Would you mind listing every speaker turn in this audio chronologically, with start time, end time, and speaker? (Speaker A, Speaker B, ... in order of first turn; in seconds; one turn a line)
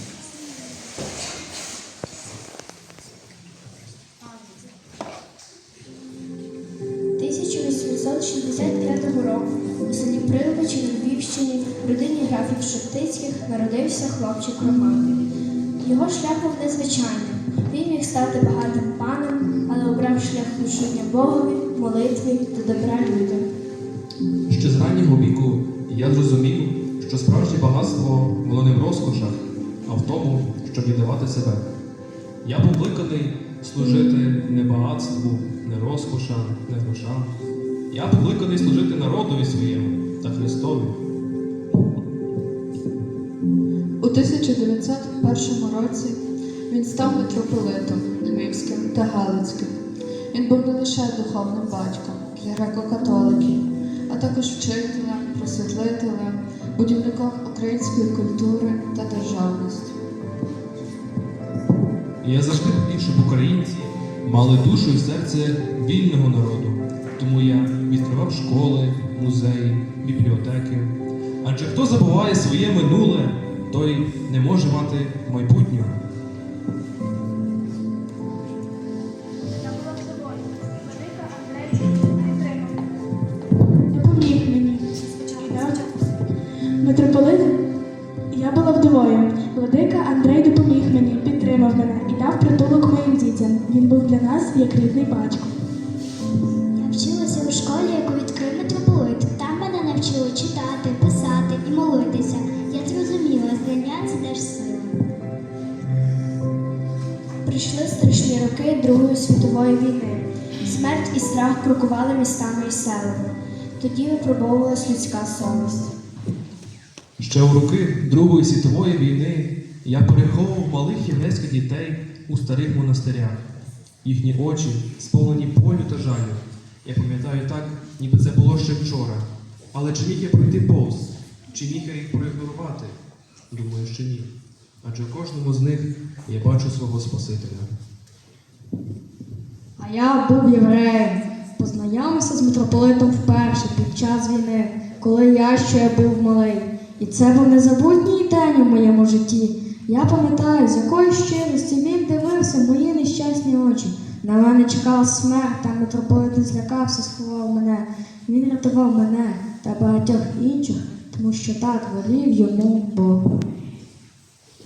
Speaker A: 7.2-15.2
Speaker A: 15.8-23.5
Speaker B: 24.5-31.7
Speaker B: 32.4-37.3
Speaker B: 37.9-41.0
Speaker C: 44.0-49.8
Speaker C: 50.3-60.0
Speaker B: 62.2-70.9
Speaker B: 71.4-76.0
Speaker D: 79.6-83.0
Speaker D: 83.9-85.9
Speaker D: 86.8-87.6
Speaker D: 88.3-95.5
Speaker E: 96.8-105.0
Speaker A: 107.5-113.3
Speaker A: 113.8-115.9
Speaker B: 117.2-123.4
Speaker B: 124.0-133.0
Speaker B: 133.5-134.3
Speaker B: 134.8-137.7
Speaker F: 139.8-163.2